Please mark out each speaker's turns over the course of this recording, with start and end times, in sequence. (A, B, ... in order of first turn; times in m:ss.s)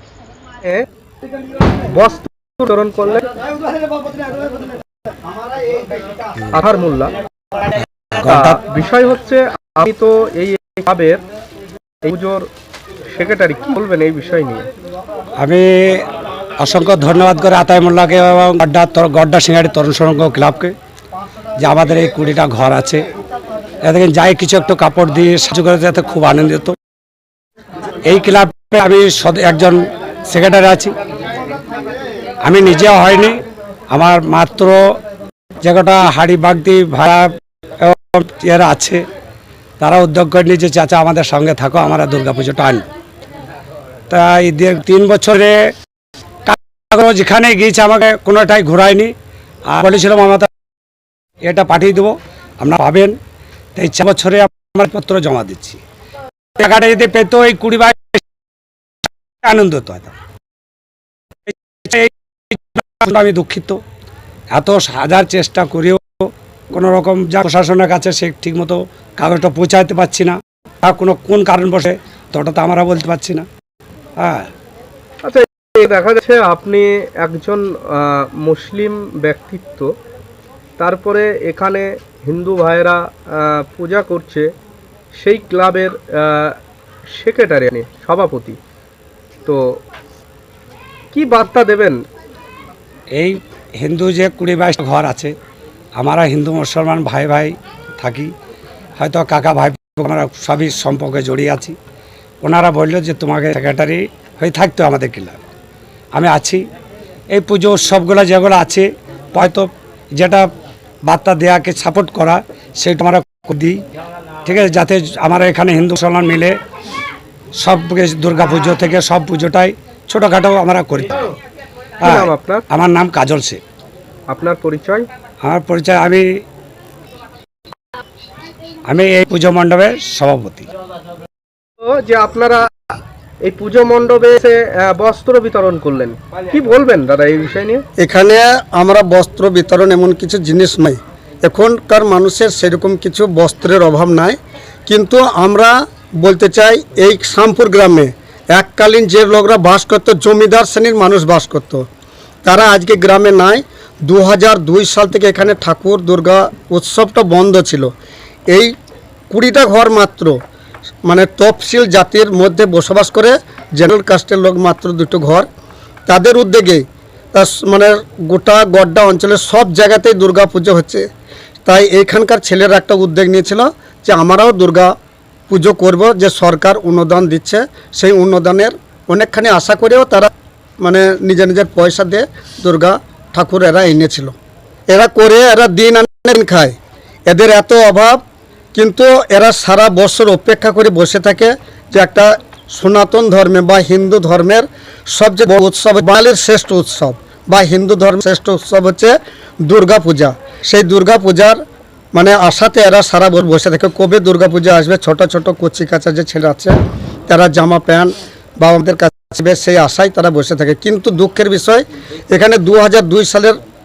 0:01.9-0:03.3 A
0:06.5-0:07.1 A
0:08.2-0:08.6 B
0:08.3-0:11.2 A
0:12.0-0:12.5 A
0:13.1-0:14.7 A
0:15.4-0:16.0 B
0:16.6-0:20.7 B
0:21.6-0:23.0 B
0:23.8-0:26.8 B
0:28.1-0:30.9 B
0:32.4-0:34.8 B
0:35.6-0:37.3 B
0:37.8-0:39.0 B
0:39.8-0:42.8 B
0:44.1-0:45.6 B
0:46.5-0:49.1 B
0:49.7-0:50.5 B
0:51.4-0:53.2 B
0:53.8-0:55.8 B
0:56.6-0:58.2 B
0:59.4-1:00.1 B
1:01.5-1:03.8 B
1:04.5-1:13.5 B
1:15.2-1:19.9 A
1:20.8-1:24.5 A
1:25.2-1:26.6 A
1:27.1-1:28.6 A
1:29.5-1:29.8 A
1:31.1-1:32.0 A
1:33.2-1:35.3 B
1:36.0-1:38.3 B
1:39.0-1:41.8 B
1:42.4-1:45.4 B
1:46.1-1:46.6 B
1:47.3-1:50.5 B
1:51.1-1:53.8 B
1:54.4-1:56.5 B
1:57.6-2:01.2 B
2:02.0-2:03.6 B
2:02.0-2:02.6 A
2:04.3-2:05.1 A
2:05.4-2:06.4 B
2:08.9-2:10.7 B
2:11.8-2:17.8 A
2:18.0-2:31.9 C
2:32.4-2:37.9 C
2:39.3-2:40.4 C
2:41.0-2:45.5 C
2:46.1-2:51.0 C
2:51.7-2:54.9 C
2:55.5-3:04.4 C
3:04.9-3:06.8 C
3:07.3-3:08.2 C
3:08.7-3:21.6 C
3:22.1-3:26.8 C
3:27.3-3:33.6 C